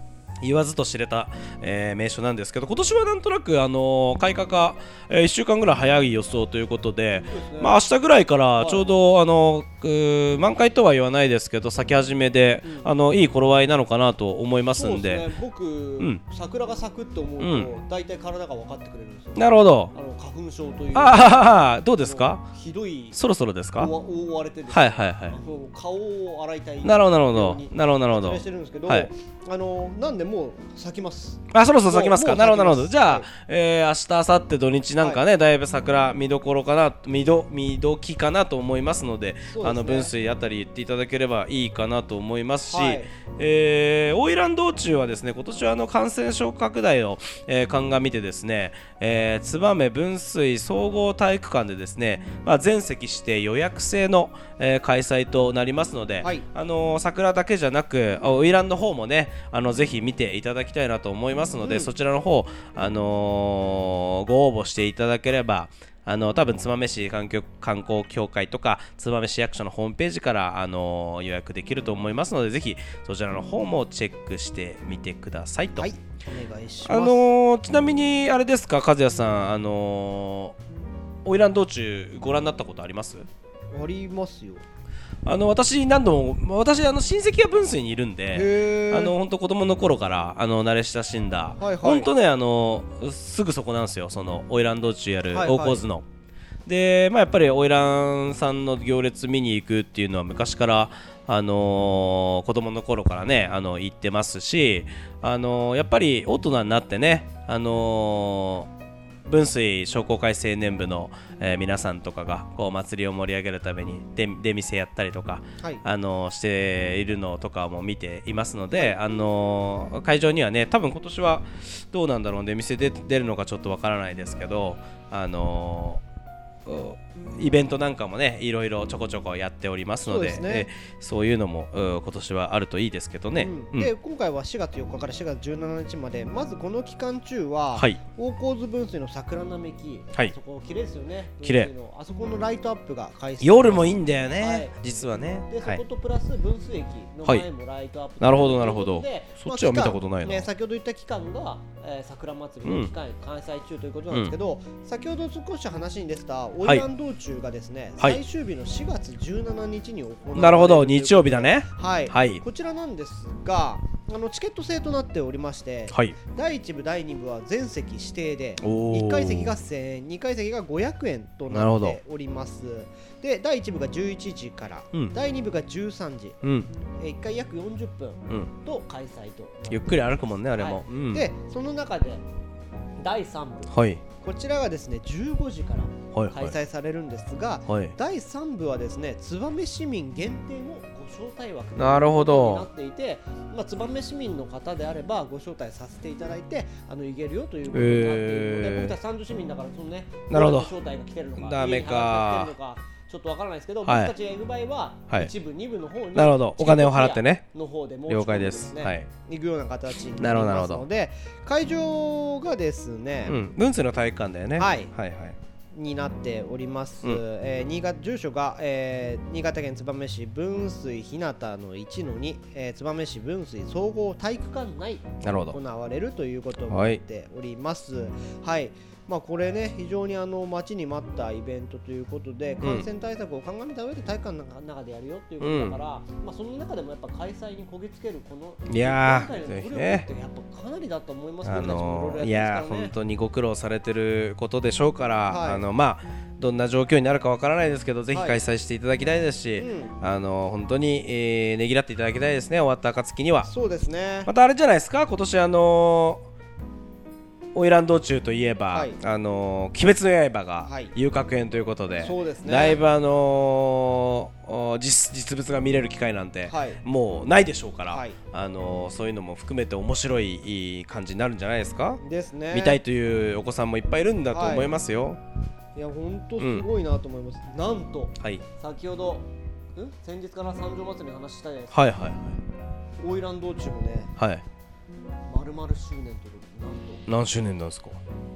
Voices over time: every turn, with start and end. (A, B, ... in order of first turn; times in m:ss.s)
0:00.4-0:15.3 A
0:07.2-0:07.8 B
0:08.6-0:08.9 B
0:12.6-0:12.9 B
0:14.7-0:23.2 B
0:17.4-0:17.7 A
0:19.4-0:19.9 A
0:20.9-0:22.4 A
0:23.1-0:23.9 A
0:23.7-0:33.3 B
0:24.7-0:25.4 A
0:26.8-0:29.1 A
0:31.5-1:15.9 A
0:39.5-0:40.1 B
0:42.6-0:43.1 B
1:01.6-1:01.9 B
1:15.8-1:17.2 B
1:16.8-1:20.6 A
1:21.2-1:23.3 A
1:23.7-1:24.6 B
1:25.2-1:36.0 A
1:28.3-1:29.1 B
1:31.6-1:32.1 B
1:35.3-1:35.8 B
1:36.6-1:48.7 A
1:49.3-2:06.0 A
2:06.6-2:13.9 A
2:10.0-2:10.7 B
2:13.4-2:24.8 B
2:17.7-2:18.0 A
2:21.4-2:21.7 A
2:23.4-2:25.8 A
2:25.5-2:56.4 B
2:28.2-2:30.5 A
2:32.6-2:32.9 A
2:40.3-2:42.4 A
2:45.9-2:46.1 A
2:48.6-2:49.6 A
2:51.5-2:52.0 A
2:56.4-2:56.7 A
2:56.9-3:02.2 B
2:59.7-3:01.3 A
3:03.0-3:33.4 B
3:03.7-3:04.0 A
3:06.1-3:06.6 A
3:07.6-3:07.9 A
3:11.8-3:12.7 A
3:17.7-3:19.0 A
3:20.3-3:20.7 A
3:21.4-3:22.5 A
3:23.8-3:24.1 A
3:26.1-3:27.4 A
3:28.1-3:29.1 A
3:30.2-3:30.8 A
3:33.2-3:35.4 A
3:34.6-3:34.9 B
3:35.7-4:02.9 B
3:45.2-3:45.6 A
3:46.7-3:47.0 A
3:52.6-3:52.9 A
3:55.4-3:55.8 A
3:58.7-4:00.1 A
4:01.4-4:13.5 A
4:05.3-4:05.7 B
4:08.1-4:08.4 B
4:09.6-4:10.0 B
4:13.4-4:14.3 B
4:14.2-4:16.2 A
4:17.5-4:35.2 A
4:18.7-4:19.0 B
4:20.6-4:20.9 B
4:22.0-4:22.8 B
4:26.5-4:26.8 B
4:27.9-4:28.2 B
4:32.0-4:32.8 B
4:34.3-4:34.7 B
4:35.7-4:42.0 B
4:36.4-4:36.6 A
4:41.7-4:42.4 A
4:43.0-4:44.1 B
4:44.2-4:44.4 A
4:45.3-4:47.0 B
4:47.1-4:48.0 A